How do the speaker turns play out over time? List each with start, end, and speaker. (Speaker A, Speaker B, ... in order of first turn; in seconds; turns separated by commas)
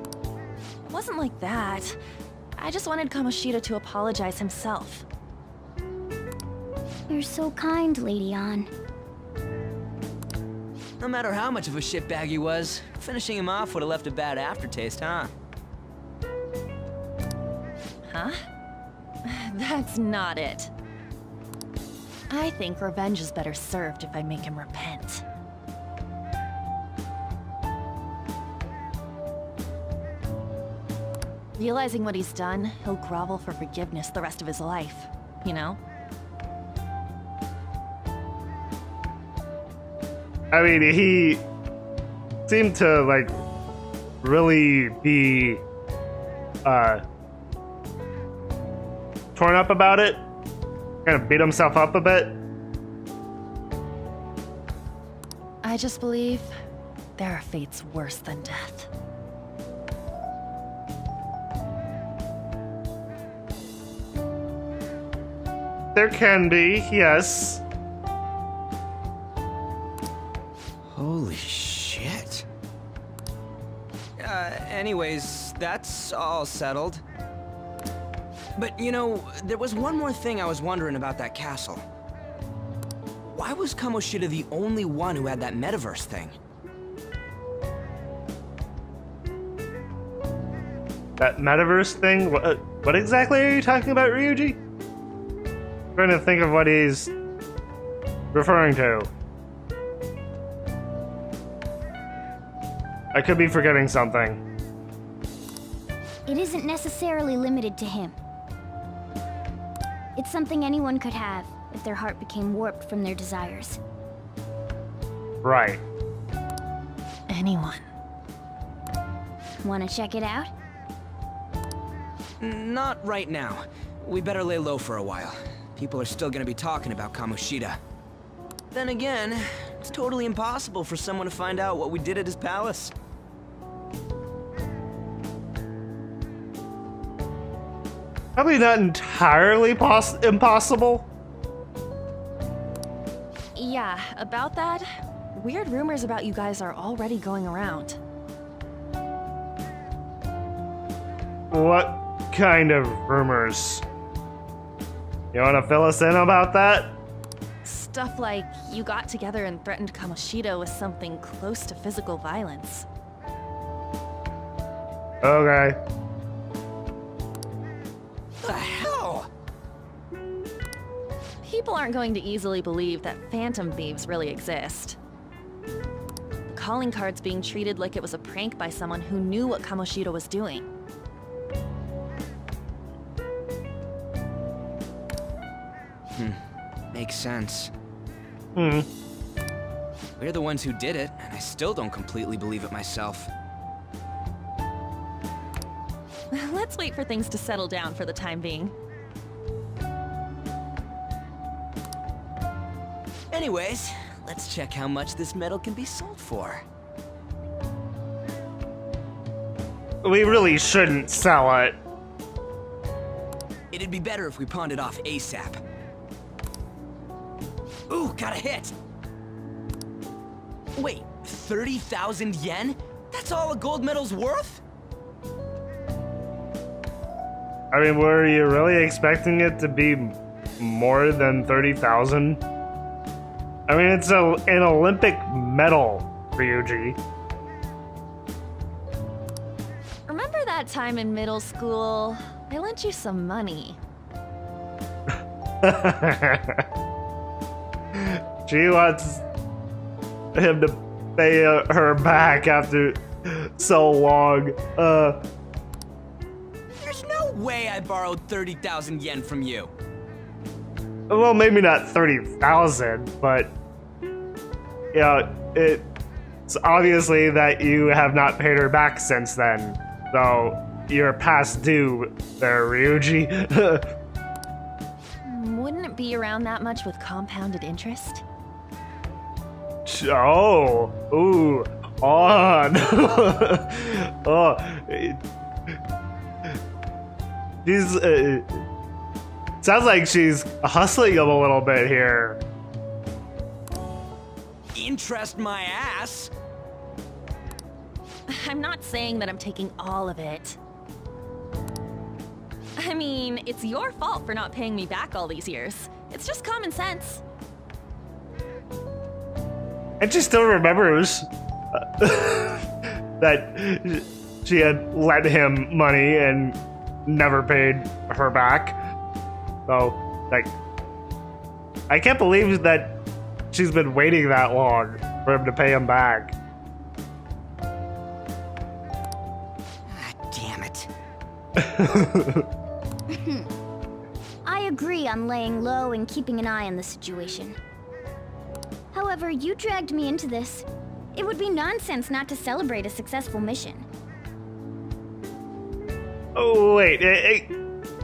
Speaker A: 0.8-2.0, Speaker A: 2.6-5.0, Speaker B: 7.1-8.7, Speaker C: 11.0-15.3, Speaker A: 18.0-18.4, Speaker A: 19.2-20.7, Speaker A: 22.3-25.2, Speaker A: 31.6-35.8, Speaker D: 40.5-41.4, Speaker D: 42.5-43.4, Speaker D: 44.2-45.6, Speaker D: 46.6-47.0, Speaker D: 49.3-50.2, Speaker D: 51.0-52.4, Speaker A: 55.6-56.5, Speaker A: 57.2-58.9, Speaker D: 65.9-67.6, Speaker C: 70.9-72.5, Speaker C: 74.2-77.0, Speaker C: 78.5-81.8, Speaker C: 83.2-86.3, Speaker D: 91.2-94.6, Speaker D: 96.0-97.1, Speaker D: 98.3-99.1, Speaker D: 103.1-104.4, Speaker B: 106.3-108.2, Speaker B: 110.2-113.8, Speaker D: 115.4-115.8, Speaker A: 117.3-117.8, Speaker B: 119.6-120.5, Speaker C: 122.4-127.8, Speaker C: 128.7-132.9, Speaker D: 138.3-141.1, Speaker A: 143.6-148.0, Speaker D: 151.5-153.8, Speaker D: 155.3-157.0, Speaker A: 157.6-162.9, Speaker D: 165.2-165.8, Speaker C: 168.4-169.3, Speaker A: 171.4-175.0, Speaker A: 176.5-180.7, Speaker C: 186.1-186.4, Speaker C: 186.9-187.7, Speaker D: 188.6-188.9, Speaker C: 190.2-193.3, Speaker A: 196.3-198.7, Speaker C: 203.3-206.6, Speaker D: 210.0-211.8, Speaker C: 213.7-215.6, Speaker C: 217.9-218.7, Speaker C: 220.8-224.6, Speaker D: 227.7-232.4, Speaker D: 233.7-237.0, Speaker A: 240.1-243.8, Speaker D: 245.1-246.6, Speaker D: 247.9-249.2, Speaker D: 250.3-255.2, Speaker C: 256.8-259.7, Speaker D: 261.1-263.5, Speaker D: 264.9-265.9, Speaker D: 266.5-273.9, Speaker A: 275.2-278.2, Speaker D: 279.9-285.7, Speaker D: 287.6-288.6, Speaker D: 289.6-292.4, Speaker C: 294.7-296.3, Speaker A: 298.3-300.6, Speaker A: 302.8-307.2, Speaker D: 310.0-318.8, Speaker D: 319.7-320.5, Speaker D: 321.9-323.0, Speaker D: 323.5-326.3, Speaker C: 329.9-330.9, Speaker D: 331.6-332.4, Speaker B: 333.1-333.5, Speaker B: 334.4-337.6, Speaker B: 338.9-343.8, Speaker D: 346.3-347.5